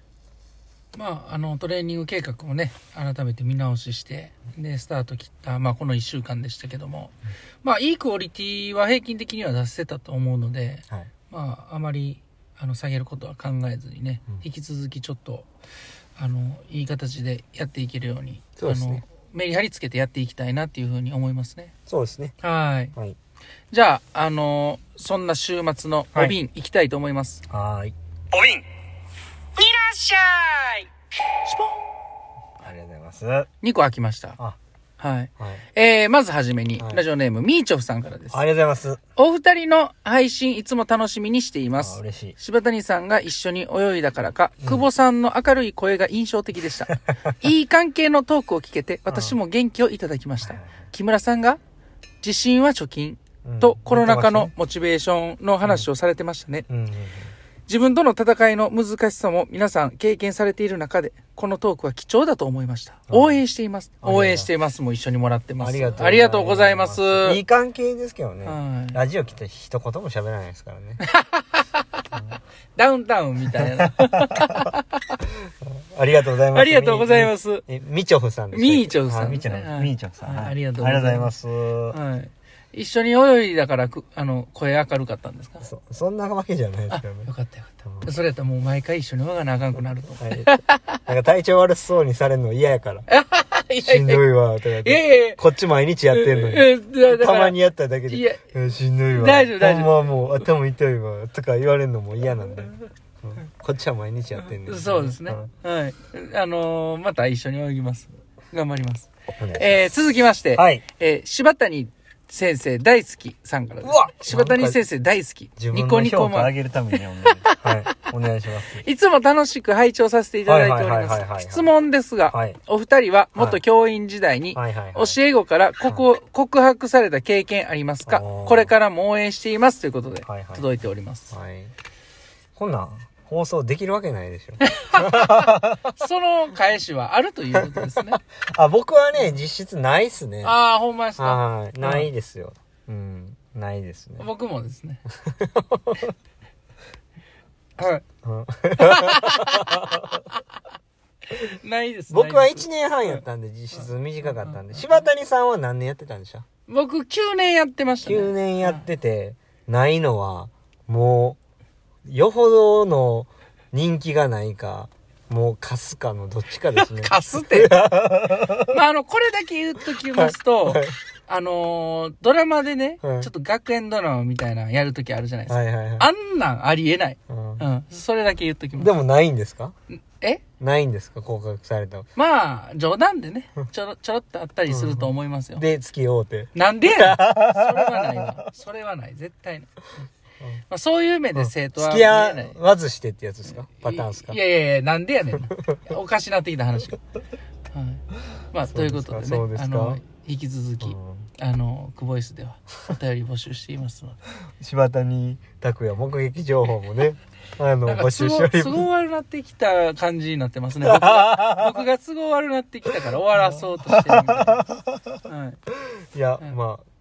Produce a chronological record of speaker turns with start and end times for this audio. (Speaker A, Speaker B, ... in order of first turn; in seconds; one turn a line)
Speaker A: 0.9-15.5
Speaker A: 16.2-21.7
Speaker B: 18.6-19.0
Speaker B: 21.9-22.4
Speaker A: 22.4-22.9
Speaker A: 23.7-27.4
Speaker B: 27.5-28.6
Speaker A: 29.6-30.9
Speaker A: 31.4-31.8
Speaker B: 32.6-33.5
Speaker A: 33.6-34.4
Speaker A: 35.0-38.4
Speaker B: 38.3-39.0
Speaker A: 39.2-51.6
Speaker B: 41.8-42.4
Speaker B: 44.6-44.9
Speaker B: 49.1-49.4
Speaker B: 50.4-50.7
Speaker A: 52.2-56.7
Speaker B: 53.4-54.5
Speaker B: 56.7-57.3
Speaker A: 57.7-67.4
Speaker B: 63.1-63.4
Speaker B: 64.0-64.5
Speaker B: 65.6-71.0
Speaker A: 68.5-69.0
Speaker A: 71.0-72.0
Speaker A: 72.8-75.2
Speaker B: 73.6-74.7
Speaker B: 75.5-82.0
Speaker A: 76.5-77.6
Speaker A: 78.5-81.3
Speaker A: 81.9-85.7
Speaker B: 85.6-87.3
Speaker A: 86.9-91.0
Speaker B: 87.8-88.1
Speaker B: 90.2-90.5
Speaker B: 91.1-93.1
Speaker A: 93.1-94.2
Speaker B: 93.8-105.5
Speaker A: 94.8-95.4
Speaker A: 96.1-97.6
Speaker A: 98.1-98.4
Speaker A: 99.1-100.4
Speaker A: 104.4-116.5
Speaker B: 109.4-109.9
Speaker B: 110.5-110.8
Speaker B: 113.8-114.8
Speaker B: 115.6-118.8
Speaker A: 117.3-117.8
Speaker A: 118.8-131.3
Speaker B: 120.5-121.7
Speaker B: 122.3-122.6
Speaker B: 123.4-123.6
Speaker B: 124.5-125.2
Speaker B: 128.1-128.7
Speaker B: 130.3-130.7
Speaker B: 131.3-131.7
Speaker B: 132.6-135.9
Speaker A: 134.6-138.2
Speaker B: 137.5-140.6
Speaker A: 140.4-142.1
Speaker B: 141.2-144.3
Speaker A: 144.2-145.0
Speaker B: 145.1-146.2
Speaker A: 147.8-148.0
Speaker B: 148.2-150.2
Speaker A: 148.8-150.4
Speaker A: 151.3-154.6
Speaker B: 152.1-156.4
Speaker A: 156.7-158.8
Speaker B: 158.0-161.4
Speaker B: 162.1-168.8
Speaker A: 166.8-167.8
Speaker A: 168.6-178.9
Speaker B: 170.1-171.0
Speaker B: 173.0-173.3
Speaker B: 175.5-176.1
Speaker B: 177.3-177.7
Speaker B: 178.8-179.7
Speaker B: 180.6-182.1
Speaker A: 182.2-185.7
Speaker B: 184.7-188.4
Speaker A: 186.6-189.7
Speaker A: 190.7-192.6
Speaker B: 191.3-194.4
Speaker A: 193.5-197.0
Speaker B: 195.5-195.8
Speaker A: 197.7-204.2
Speaker B: 198.7-200.0
Speaker B: 200.8-201.3
Speaker B: 204.6-208.9
Speaker A: 207.8-214.7
Speaker B: 210.8-211.8
Speaker B: 213.4-215.1
Speaker A: 215.3-215.6
Speaker B: 216.1-216.9